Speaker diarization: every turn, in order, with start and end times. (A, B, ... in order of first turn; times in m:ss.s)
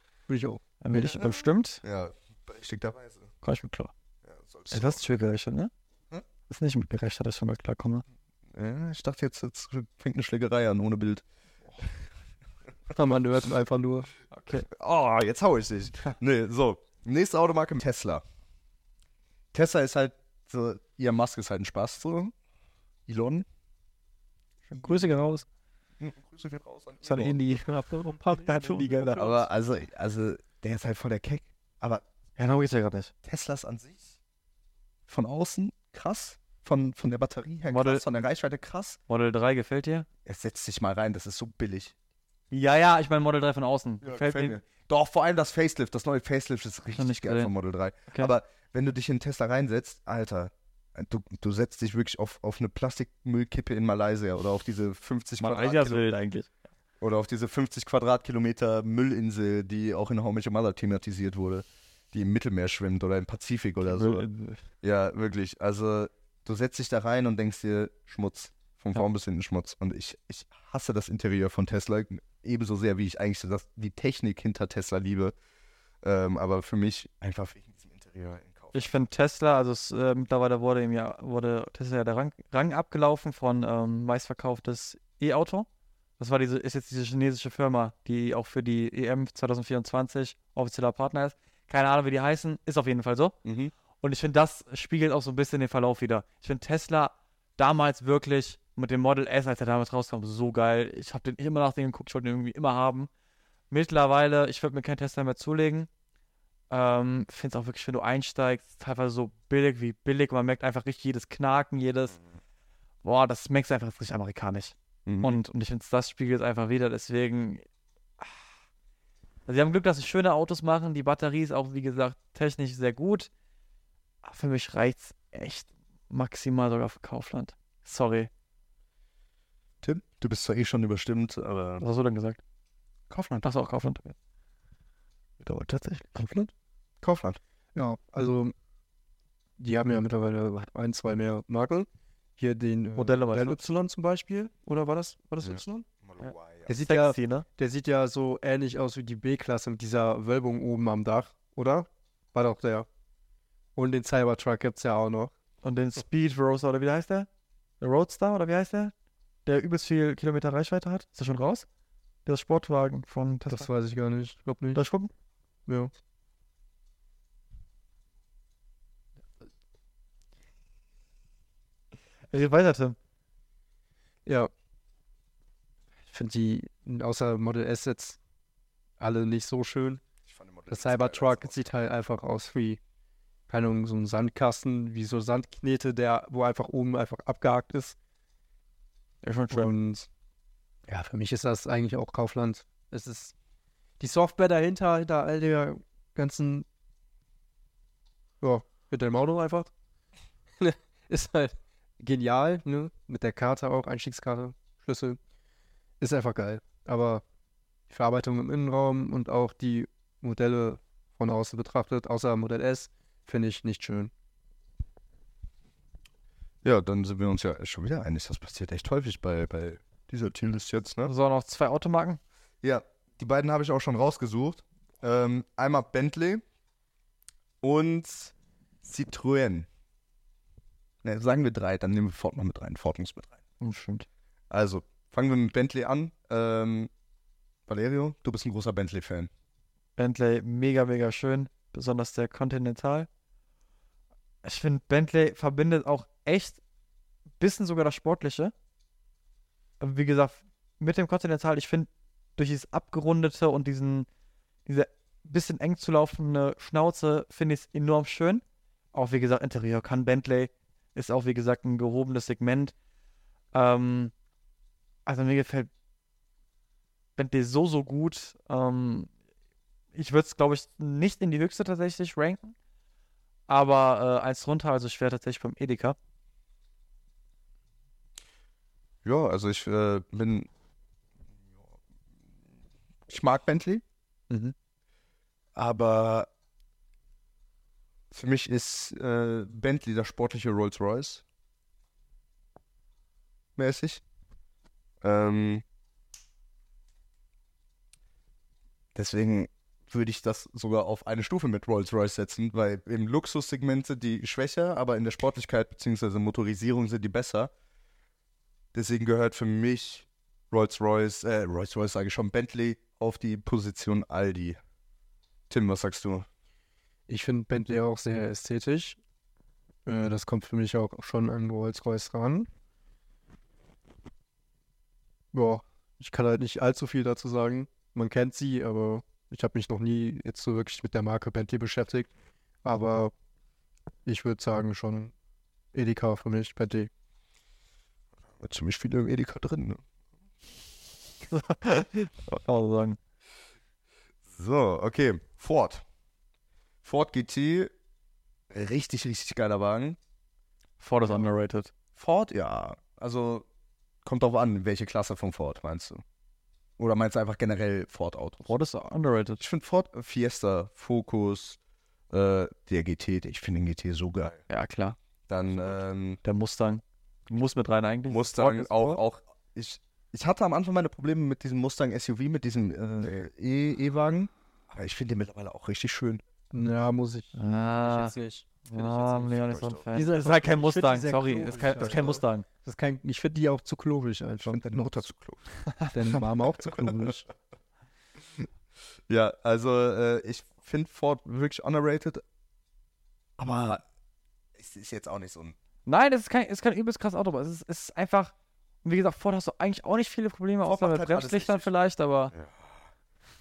0:00.3-0:01.2 A
0:00.8-0:01.8 B
0:01.8-0:03.3 C
0:03.4-0:03.9 B
0:04.2-0:05.0 C
0:04.7-0:05.7 B
0:06.5-0:08.0 B
0:08.5-0:11.2 C
0:12.9-0:14.1 A
0:14.3-0:14.7 B
0:14.5-0:18.2 C
0:19.5-0:22.3 C
0:23.1-0:23.5 C
0:24.7-0:25.4 B
0:26.0-0:27.4 C
0:27.0-0:29.5 B
0:27.5-0:29.4 A
0:29.2-0:32.0 C
0:32.4-0:33.1 B
0:33.2-0:34.2 C
0:35.1-0:39.0 C
0:37.7-0:38.0 B
0:39.1-0:40.1 B
0:40.2-0:41.9 C
0:42.5-0:44.6 B
0:44.0-0:56.0 C
0:46.9-0:47.5 B
0:55.4-0:56.5 B
0:57.0-1:04.3 C
1:03.8-1:04.6 B
1:04.8-1:15.3 C
1:16.0-1:18.9 C
1:18.7-1:25.7 B
1:26.2-1:33.4 B
1:33.4-1:33.7 C
1:34.0-1:43.1 B
1:43.7-1:45.9 B
1:46.7-1:52.2 B
1:53.0-1:57.6 B
1:55.1-1:55.4 C
1:59.5-2:03.3 B
2:04.2-2:08.3 B
2:09.8-2:11.9 C
2:11.8-2:12.4 B
2:13.1-2:13.5 C
2:13.4-2:14.2 B
2:15.4-2:16.5 B
2:17.0-2:17.4 C
2:17.8-2:18.5 A
2:19.6-2:25.9 A
2:23.0-2:23.6 B
2:25.4-2:26.7 C
2:26.7-2:32.9 A
2:26.8-2:27.5 B
2:33.8-2:35.3 A
2:35.6-2:37.3 B
2:37.8-2:38.9 B
2:39.5-2:41.7 B
2:42.3-2:43.7 B
2:43.5-2:44.8 A
2:44.8-2:45.1 B
2:45.7-2:45.9 A
2:52.3-2:53.0 B
2:56.1-2:58.2 A
2:59.0-3:00.0 A
3:00.3-3:01.6 C
3:00.7-3:02.8 A
3:03.5-3:08.0 A
3:09.2-3:09.7 B
3:09.5-3:10.1 A
3:10.9-3:13.3 A
3:14.0-3:16.7 A
3:18.4-3:19.7 A
3:20.6-3:25.2 A
3:26.0-3:27.2 A
3:27.9-3:34.1 A
3:36.6-3:41.1 C
3:41.1-3:42.2 B
3:42.6-3:46.4 C
3:47.6-3:49.7 C
3:51.0-3:53.4 C
3:53.6-3:54.1 B
3:54.5-3:56.9 C
3:57.7-3:59.3 C
4:00.0-4:03.1 B
4:04.4-4:06.6 B
4:07.4-4:08.5 B
4:09.8-4:14.1 B
4:14.7-4:22.7 B
4:23.5-4:24.1 B
4:25.1-4:25.7 B
4:27.2-4:29.1 B
4:30.0-4:32.5 B
4:33.5-4:36.0 B
4:39.0-4:40.5 C
4:43.1-4:43.8 C
4:45.6-4:46.3 C
4:48.1-4:51.2 C
4:53.6-4:54.0 C
4:55.0-4:55.6 C
4:59.0-5:07.5 C
5:08.7-5:14.6 C
5:15.5-5:16.3 C
5:17.1-5:19.0 A
5:19.9-5:22.5 A
5:25.3-5:32.1 A
5:32.6-5:33.1 A
5:34.1-5:35.1 A
5:35.7-5:36.9 A
5:38.4-5:39.8 C
5:41.3-5:43.0 B
5:44.3-5:45.8 C
5:46.8-5:47.7 C
5:48.5-5:50.0 C
5:50.8-5:51.7 B
5:52.0-5:53.5 C
5:54.0-5:56.0 C
5:56.8-5:58.6 C
5:58.5-5:59.4 B
5:59.4-6:01.6 C
6:02.1-6:04.4 C
6:04.5-6:05.0 B
6:05.3-6:06.2 C
6:06.2-6:09.0 B
6:08.1-6:16.2 C
6:16.5-6:19.3 A
6:17.4-6:18.1 B
6:18.7-6:22.4 B
6:19.3-6:19.9 C
6:19.9-6:25.0 A
6:21.5-6:22.2 C
6:24.4-6:25.5 C
6:25.7-6:25.9 B
6:25.9-6:27.2 A
6:29.1-6:32.2 C
6:33.4-6:33.8 C
6:34.6-6:35.6 C
6:35.9-6:38.3 B
6:38.8-6:42.3 B
6:40.6-6:41.7 C
6:42.3-6:42.7 C